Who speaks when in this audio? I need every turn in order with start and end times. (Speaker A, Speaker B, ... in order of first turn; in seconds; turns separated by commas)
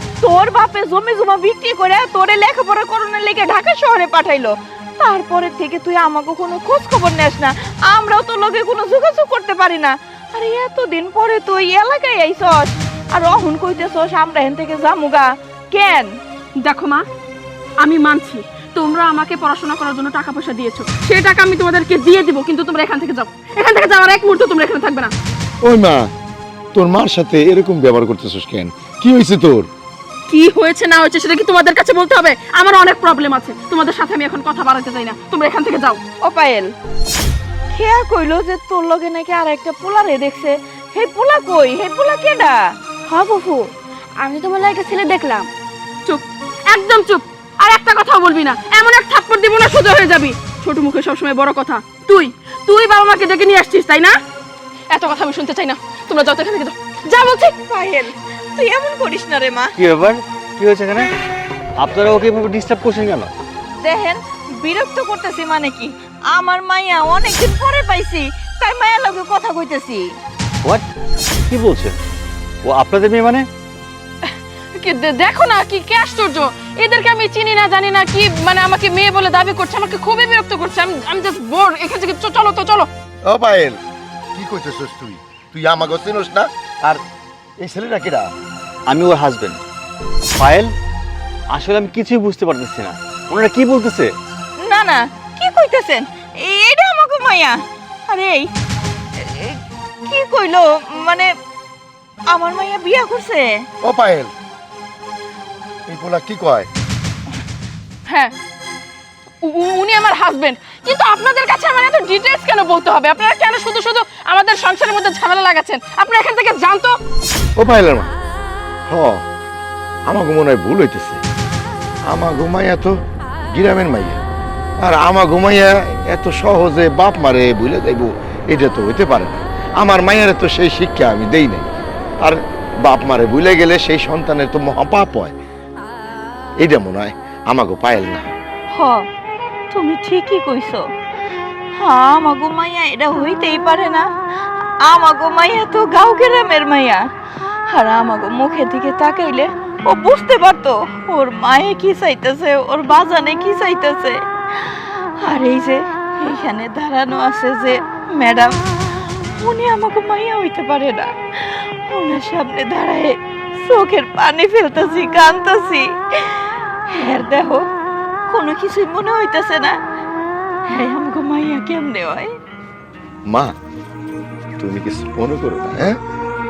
Speaker A: 0.2-16.1, Speaker B: 16.6-17.1, Speaker B: 17.8-25.1, Speaker C: 25.6-26.1, Speaker C: 26.7-29.7, Speaker B: 30.3-36.0, Speaker A: 36.2-36.7, Speaker A: 37.7-42.5, Speaker D: 43.1-43.7, Speaker D: 44.2-45.5, Speaker B: 46.0-54.1, Speaker B: 54.9-57.5, Speaker A: 57.5-59.7, Speaker E: 59.8-61.0, Speaker E: 61.8-63.3, Speaker A: 63.8-70.0, Speaker E: 71.5-71.9, Speaker E: 72.6-73.5, Speaker B: 74.2-82.9, Speaker C: 83.2-83.8, Speaker C: 84.3-87.0, Speaker C: 87.6-88.3, Speaker E: 88.9-89.6, Speaker E: 90.3-90.7, Speaker E: 91.5-94.1, Speaker A: 94.7-97.6, Speaker A: 98.1-98.4, Speaker A: 99.2-101.3, Speaker A: 102.3-103.5, Speaker C: 103.8-104.3, Speaker C: 105.9-106.7, Speaker B: 108.0-108.3, Speaker B: 109.4-117.0, Speaker C: 117.6-118.1, Speaker C: 118.9-119.2, Speaker C: 120.1-121.2, Speaker C: 122.1-122.9, Speaker C: 123.5-124.2, Speaker C: 124.8-131.7, Speaker C: 132.2-135.3, Speaker C: 136.6-138.3, Speaker A: 139.7-140.8, Speaker A: 141.8-144.0, Speaker A: 144.8-147.0, Speaker A: 147.7-167.6, Speaker A: 168.3-169.7, Speaker A: 170.7-172.3, Speaker C: 173.3-173.5, Speaker C: 174.6-176.0